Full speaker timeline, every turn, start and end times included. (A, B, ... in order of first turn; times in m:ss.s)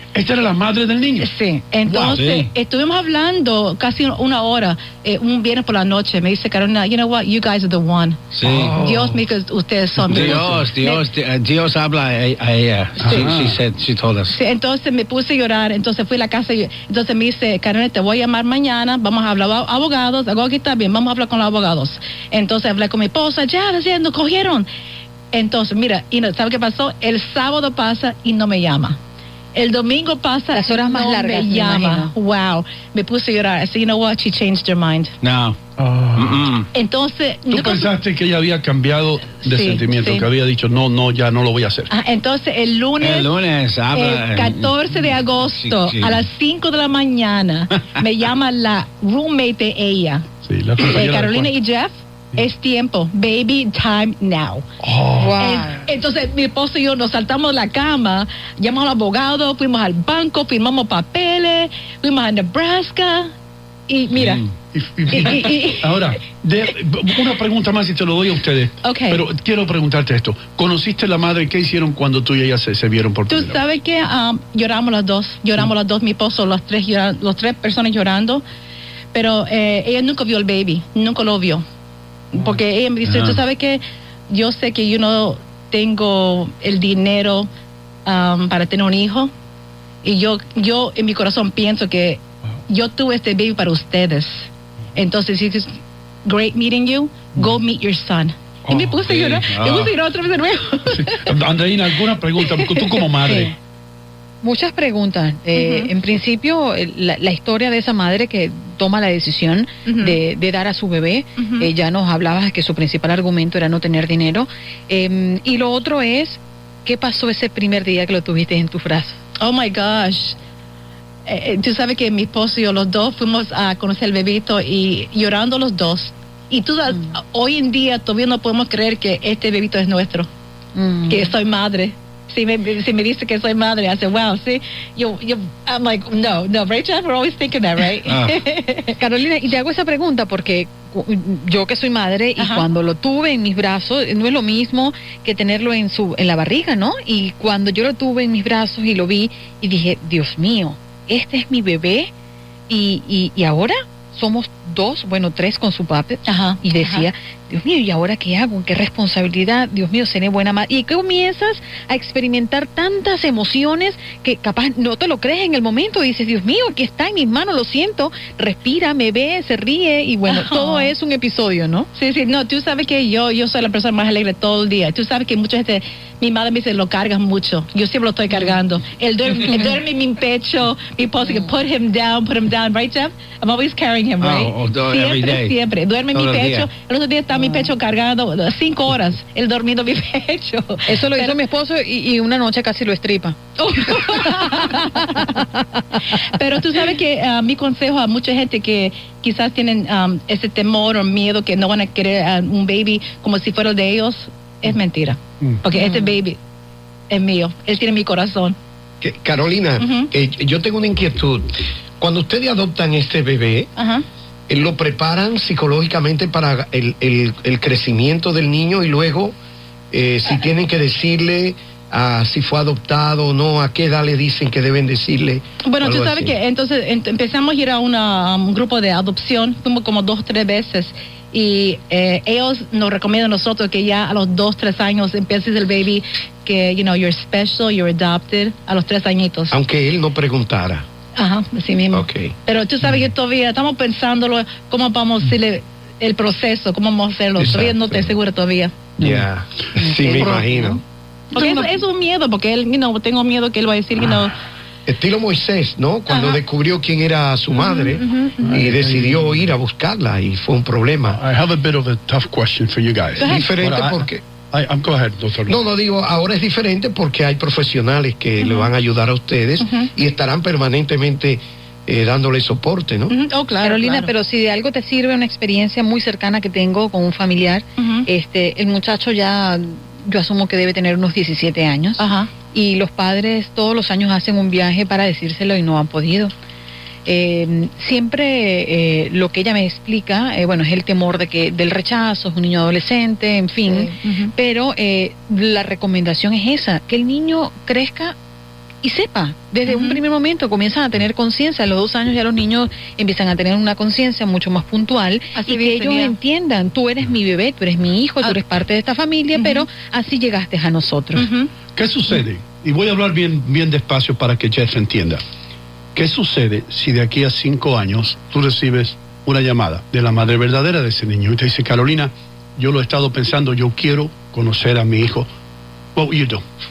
0:00.1-0:01.3 A
0:01.2-0:11.1 B
0:01.9-0:02.2 A
0:02.1-0:02.5 C
0:08.3-0:08.9 C
0:08.4-0:09.1 A
0:10.0-0:10.7 A
0:10.0-0:14.4 C
0:13.0-0:13.6 A
0:14.3-0:24.7 B
0:25.3-0:29.0 B
0:29.5-0:35.1 B
0:30.5-0:32.1 D
0:35.2-0:35.6 C
0:35.8-0:36.5 A
0:36.2-0:36.7 C
0:36.7-0:37.9 B
0:37.5-0:41.9 A
0:39.3-0:40.3 B
0:41.9-0:43.3 B
0:43.0-0:44.8 C
0:43.9-0:54.7 B
0:45.5-0:46.2 C
0:50.4-0:51.5 A
0:54.8-0:55.4 A
0:55.2-0:55.8 D
0:55.4-1:03.3 B
1:03.9-1:04.4 B
1:04.3-1:13.6 A
1:05.1-1:06.1 B
1:08.8-1:09.3 B
1:13.3-1:18.4 B
1:19.1-1:21.6 B
1:22.3-1:27.5 B
1:23.1-1:23.4 C
1:28.0-1:29.3 B
1:30.0-1:41.4 B
1:38.7-1:39.3 A
1:39.1-1:39.9 C
1:40.9-1:43.5 A
1:42.4-1:43.0 B
1:43.1-1:43.5 D
1:44.4-1:59.2 D
1:45.6-1:46.0 B
1:49.8-1:50.2 B
1:51.4-1:51.7 B
1:59.4-2:00.4 B
2:01.2-2:10.3 B
2:10.8-2:11.2 D
2:11.1-2:19.0 B
2:18.1-2:18.4 C
2:19.0-2:32.1 D
2:22.4-2:22.7 B
2:32.7-2:51.9 D
2:36.2-2:37.1 B
2:50.2-2:51.0 B
2:52.0-3:11.4 B
3:04.2-3:05.6 C
3:06.1-3:06.7 C
3:10.9-3:13.4 D
3:13.6-3:15.4 B
3:16.2-3:26.4 B
3:27.1-3:28.6 B
3:29.0-3:33.7 E
3:29.8-3:30.1 B
3:33.8-3:34.0 B
3:34.5-3:39.4 E
3:39.9-3:46.4 E
3:45.6-3:59.6 B
3:59.5-4:00.9 E
4:01.2-4:08.9 B
4:01.9-4:02.4 E
4:07.4-4:08.2 E
4:09.0-4:09.3 A
4:09.0-4:10.8 E
4:09.8-4:10.5 A
4:11.3-4:14.4 B
4:11.4-4:11.7 A
4:14.9-4:18.0 E
4:16.1-4:16.4 B
4:17.5-4:18.6 B
4:18.4-4:19.6 A
4:18.5-4:21.2 E
4:21.0-4:25.6 A
4:23.2-4:23.5 B
4:23.2-4:24.2 E
4:25.5-4:33.1 E
4:28.4-4:28.7 B
4:29.6-4:29.9 B
4:33.1-4:34.2 B
4:33.6-4:46.3 D
4:37.8-4:38.1 B
4:42.0-4:42.4 B
4:47.1-4:58.2 D
4:53.7-4:54.3 B
4:58.8-5:11.2 D
4:59.7-5:00.1 B
5:05.3-5:06.2 B
5:09.3-5:09.7 B
5:11.1-5:12.2 B
5:11.7-5:15.2 A
5:16.0-5:25.3 A
5:26.0-5:26.4 A